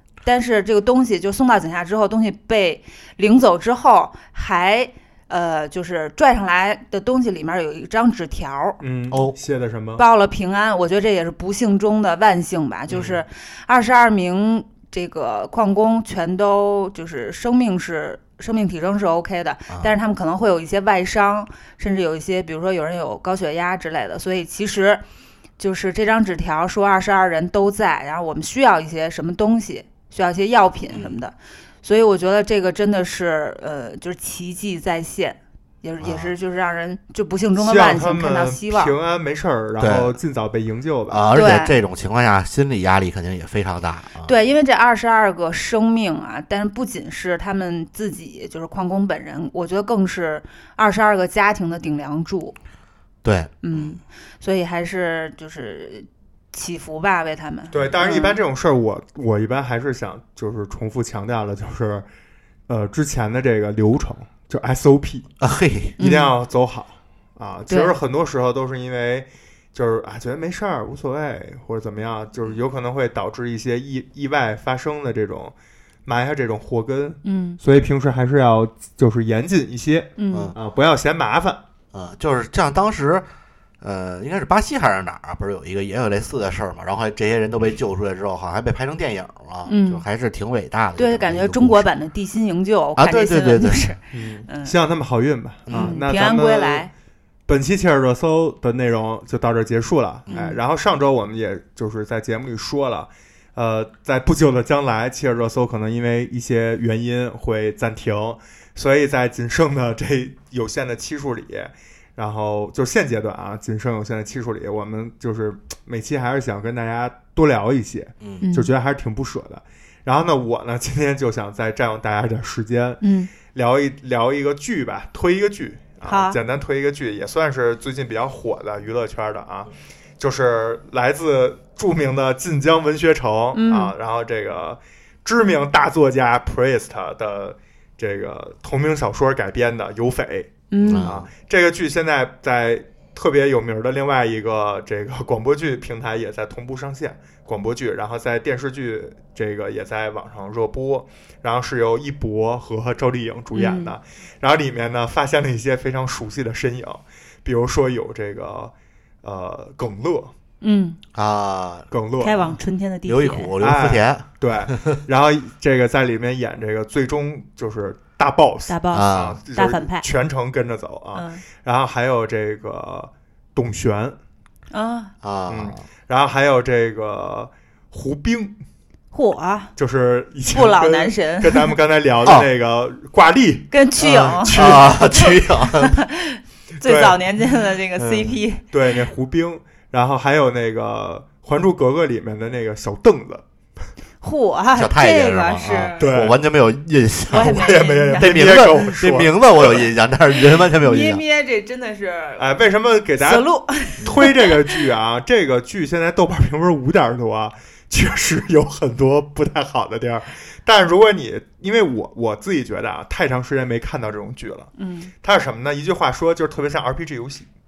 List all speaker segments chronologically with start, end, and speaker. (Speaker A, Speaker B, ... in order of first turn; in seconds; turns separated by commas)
Speaker A: 0.2-8.8, Speaker B: 8.8-10.0, Speaker A: 10.0-25.0, Speaker A: 25.6-38.9, Speaker C: 36.0-36.3, Speaker B: 37.6-41.3, Speaker C: 39.8-40.2, Speaker C: 41.1-44.3, Speaker A: 41.3-41.7, Speaker A: 44.2-52.6, Speaker C: 53.2-54.0, Speaker A: 53.6-58.4, Speaker B: 57.7-62.1, Speaker B: 62.7-65.3, Speaker C: 65.4-66.0, Speaker B: 66.0-75.5, Speaker A: 66.0-66.3, Speaker A: 67.7-68.0, Speaker B: 76.1-81.6, Speaker A: 77.2-77.6, Speaker A: 80.2-80.5, Speaker C: 81.9-83.3, Speaker C: 83.8-91.9, Speaker A: 89.7-90.0, Speaker A: 91.0-94.8, Speaker C: 93.0-93.9, Speaker B: 94.1-96.9, Speaker C: 95.7-96.0, Speaker A: 95.7-96.9, Speaker B: 97.5-158.7, Speaker A: 100.3-100.6, Speaker A: 118.4-118.7, Speaker A: 123.0-123.3, Speaker A: 126.1-126.4, Speaker A: 133.6-133.9, Speaker A: 140.7-141.1, Speaker C: 140.8-141.3, Speaker A: 153.5-153.9, Speaker B: 159.2-160.3, Speaker A: 160.6-161.0, Speaker C: 161.2-161.9, Speaker B: 161.9-162.4, Speaker A: 162.2-163.5, Speaker C: 163.1-165.0, Speaker B: 163.6-174.2, Speaker A: 168.7-170.1, Speaker C: 168.9-169.4, Speaker A: 171.1-171.4, Speaker A: 174.7-175.1, Speaker C: 175.2-175.8, Speaker B: 175.5-178.6, Speaker A: 179.1-179.7, Speaker B: 179.8-185.0, Speaker A: 180.5-181.7, Speaker A: 183.7-188.7, Speaker C: 184.5-185.9, Speaker B: 186.8-187.2, Speaker B: 188.1-193.4, Speaker A: 194.2-196.1, Speaker C: 194.8-201.2, Speaker B: 196.0-196.4, Speaker A: 197.3-198.3, Speaker B: 197.3-199.9, Speaker A: 200.7-202.6, Speaker B: 202.4-214.7, Speaker A: 203.2-204.6, Speaker A: 214.8-215.1, Speaker B: 215.2-217.5